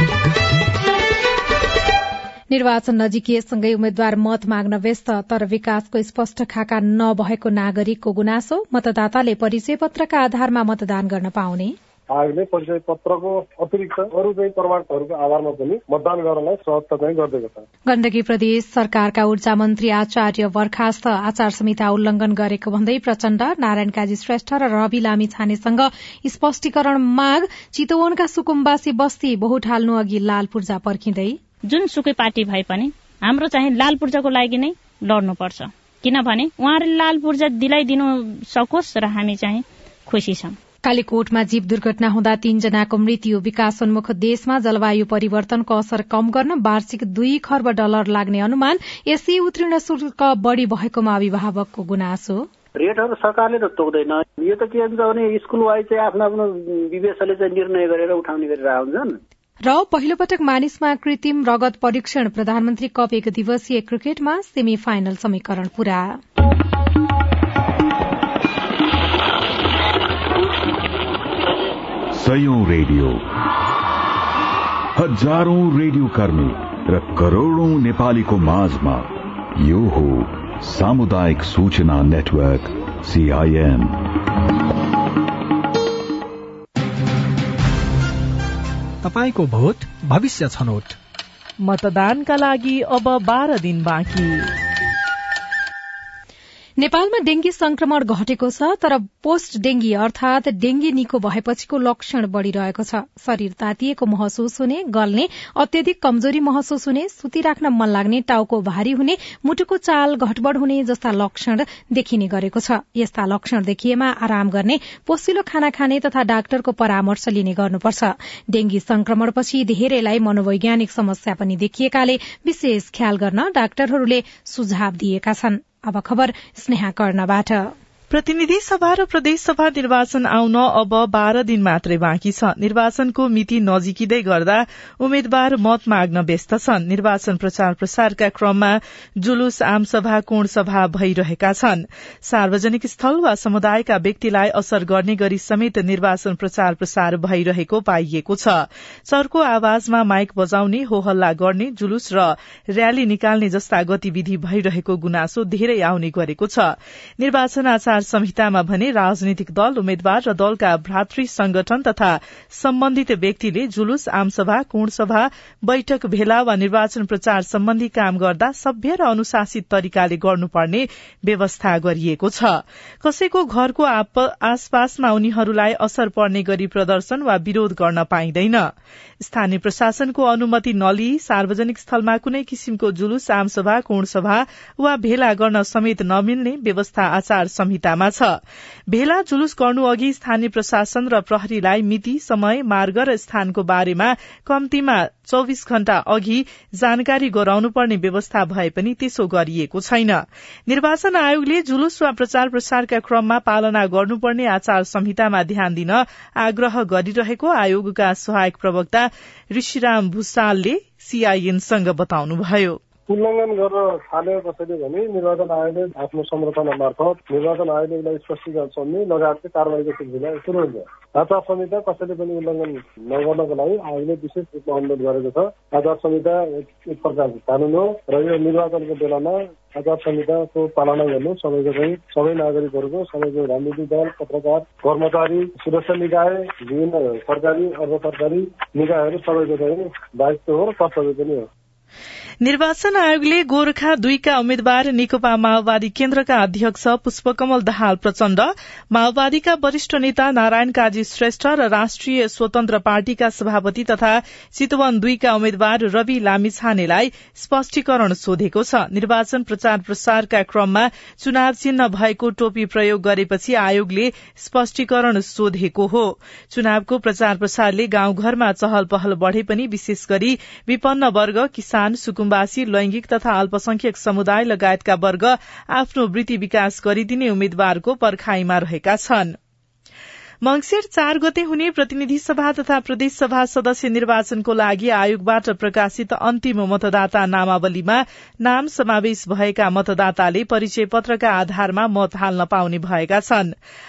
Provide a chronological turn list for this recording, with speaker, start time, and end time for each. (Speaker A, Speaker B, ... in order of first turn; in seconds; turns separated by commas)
Speaker A: 2.5-11.8, Speaker B: 12.1-17.7, Speaker A: 17.9-31.4, Speaker C: 31.7-40.5, Speaker A: 40.9-52.5, Speaker D: 52.8-59.2, Speaker A: 59.7-66.2, Speaker E: 72.1-73.2, Speaker E: 75.0-84.0, Speaker F: 89.0-91.0, Speaker G: 91.6-94.5, Speaker A: 96.8-127.7, Speaker G: 128.1-212.8, Speaker B: 213.1-241.5, Speaker G: 242.4-279.4, Speaker G: 280.4-293.6